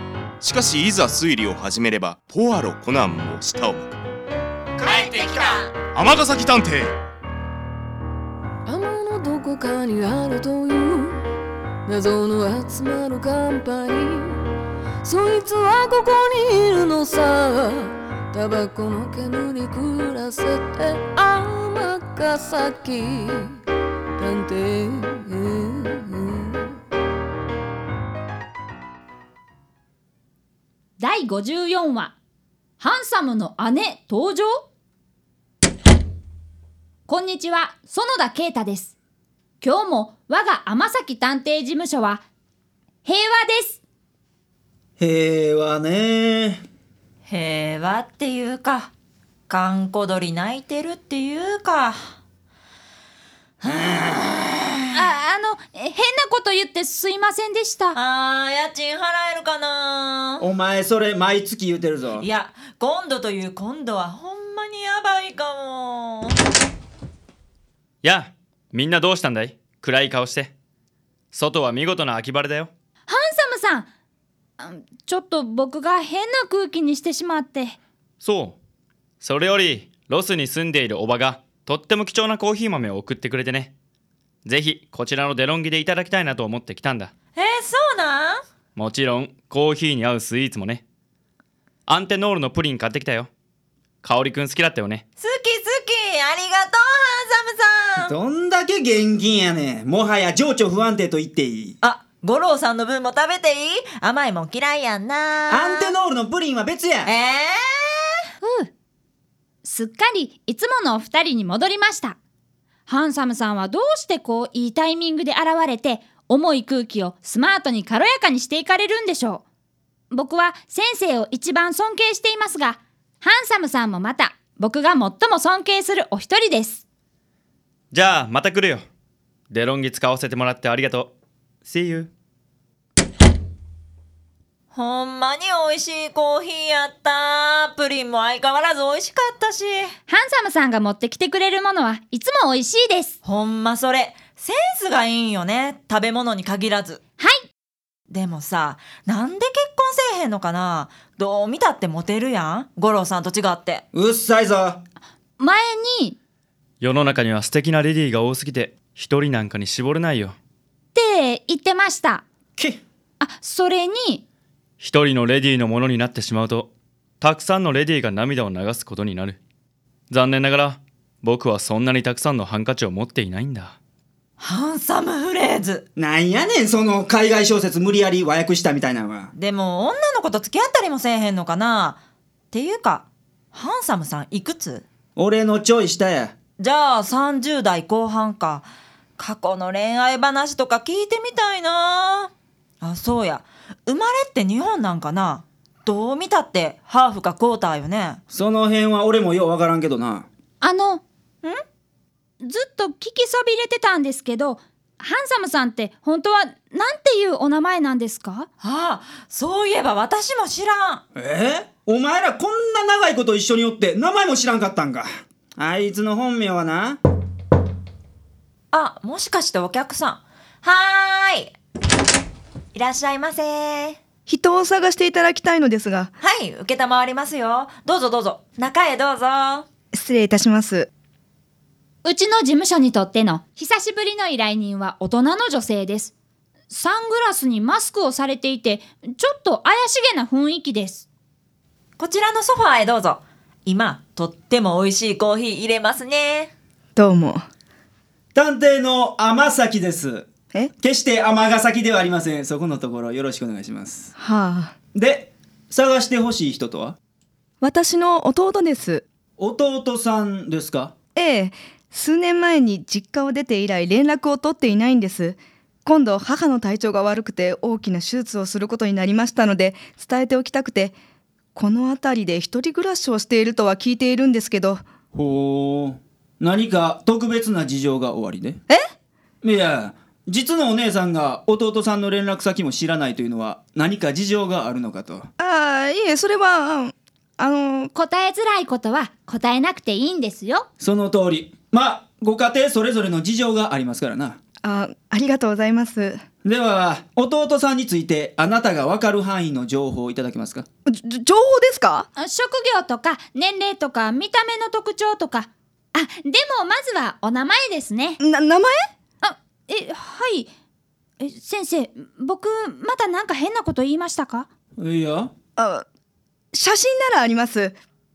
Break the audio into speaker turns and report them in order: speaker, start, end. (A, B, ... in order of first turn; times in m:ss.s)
0:00.4-0:03.9 A
0:04.8-0:05.7 B
0:04.9-0:06.9 A
0:08.6-0:11.2 C
0:11.8-0:14.4 C
0:15.0-0:23.6 C
0:24.2-0:26.6 C
0:31.0-0:32.1 D
0:32.8-0:34.6 D
0:37.1-0:38.9 D
0:39.6-0:42.2 D
0:43.0-0:43.8 D
0:45.0-0:46.6 E
0:47.2-0:48.9 B
0:49.5-0:52.2 B
0:54.9-0:58.0 D
0:57.9-1:00.4 B
1:00.4-1:02.2 E
1:02.1-1:06.4 B
1:08.0-1:10.5 F
1:11.3-1:12.7 F
1:13.1-1:13.9 D
1:14.6-1:17.8 D
1:18.2-1:18.6 F
1:19.2-1:23.7 F
1:24.4-1:27.1 F
1:27.4-1:28.4 B
1:28.8-1:30.8 F
1:31.9-1:33.3 F
1:34.0-1:35.0 F
1:35.2-1:38.1 B
1:38.0-1:41.8 E
1:41.8-1:46.0 B
1:45.5-1:47.1 E
1:47.0-1:48.2 B
1:48.4-1:48.7 D
1:49.6-1:52.2 D
1:52.9-1:59.4 D
2:00.1-2:06.8 D
2:07.9-2:08.8 F
2:09.5-2:11.1 F
2:11.6-2:12.1 F
2:14.7-2:19.9 B
2:20.1-2:23.2 D
2:23.2-2:27.0 B
2:28.1-2:33.8 B
2:33.9-2:34.8 E
2:35.4-2:36.2 D
2:36.8-2:40.3 F
2:40.9-2:42.2 D
2:42.6-2:42.8 E
2:43.2-2:44.2 D
2:44.8-2:46.7 F
2:47.2-2:49.4 F
2:50.1-2:53.8 F
2:54.4-2:55.8 B
2:56.0-2:59.3 E
2:59.3-3:02.0 B
3:02.5-3:04.8 B
3:05.2-3:06.3 E
3:06.6-3:08.7 B
3:09.2-3:18.2 B
3:18.3-3:20.3 E
3:20.6-3:21.0 D
3:22.4-3:28.5 D
3:28.6-3:31.0 B
3:31.1-3:37.0 E
3:38.7-3:41.6 B
3:42.7-3:44.0 B
3:44.3-3:46.1 G
3:46.2-3:49.6 B
3:49.9-3:50.9 G
3:52.0-3:56.1 D
3:56.7-4:01.0 D
4:02.0-4:06.5 B
4:07.0-4:07.4 G
4:08.3-4:14.1 E
4:14.2-4:14.7 G
4:14.9-4:17.0 E
4:17.6-4:19.0 G
4:19.4-4:20.9 E
4:21.2-4:30.9 G
4:31.5-4:34.8 G
4:35.1-4:38.6 E
4:39.4-4:45.3 E
4:45.4-4:47.9 G
4:47.9-4:50.7 D
4:50.8-4:54.4 E
4:54.6-4:56.2 G
4:56.4-5:00.6 E
5:00.9-5:02.1 G
5:02.2-5:08.2 D
5:08.2-5:08.7 G
5:09.2-5:10.5 D
5:11.2-5:14.5 D
5:14.8-5:15.3 E
5:15.6-5:15.8 G
5:16.5-5:17.7 G